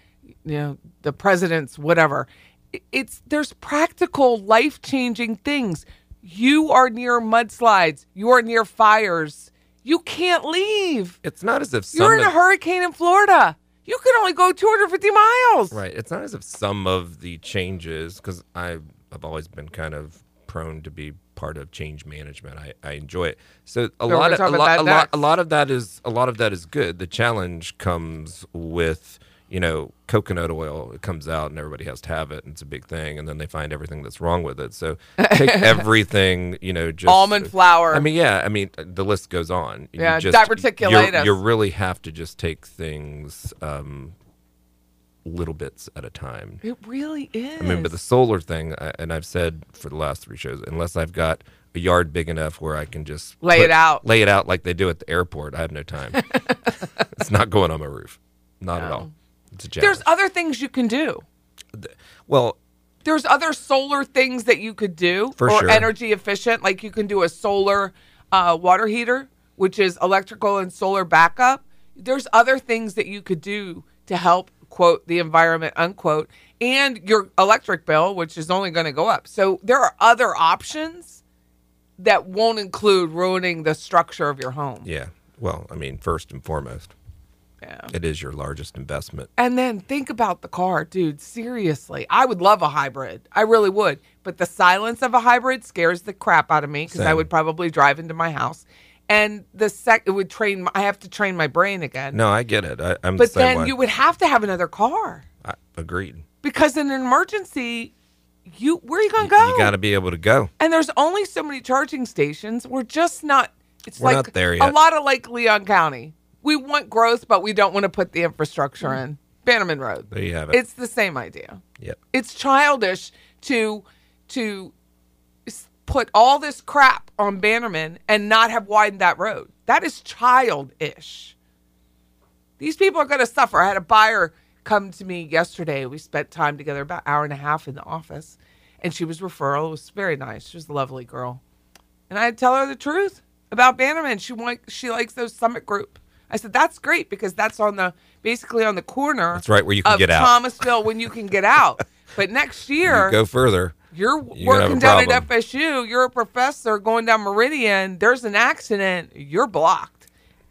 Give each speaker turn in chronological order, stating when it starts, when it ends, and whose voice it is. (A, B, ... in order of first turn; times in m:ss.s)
0:00.4-0:11.2 A
0:11.2-0:12.3 B
0:11.9-0:15.8 A
0:15.7-0:44.1 B
0:24.1-0:25.2 A
0:35.2-0:35.8 A
0:37.0-0:38.0 A
0:40.0-0:41.4 A
0:45.2-0:46.6 B
0:46.6-0:47.9 A
0:47.6-0:56.3 B
0:53.4-0:54.0 A
0:57.1-1:00.1 B
0:58.8-0:59.1 A
0:59.8-1:01.2 A
1:01.7-1:02.6 B
1:03.0-1:21.2 A
1:05.4-1:05.9 B
1:22.0-1:24.9 A
1:24.8-1:26.9 B
1:27.6-1:27.9 A
1:27.9-1:29.3 B
1:29.4-1:42.2 A
1:36.9-1:37.3 B
1:42.1-1:43.7 B
1:43.2-1:45.2 A
1:45.4-1:46.2 B
1:46.4-1:47.9 A
1:48.5-1:49.7 A
1:49.2-1:50.5 B
1:50.6-2:01.6 A
1:54.0-1:54.8 B
2:00.1-2:00.6 B
2:02.1-2:04.7 A
2:05.4-2:11.3 A
2:12.6-2:21.4 A
2:22.1-2:33.2 A
2:29.3-2:30.8 B
2:32.8-2:33.8 B
2:33.9-2:40.1 A
2:34.3-2:35.3 B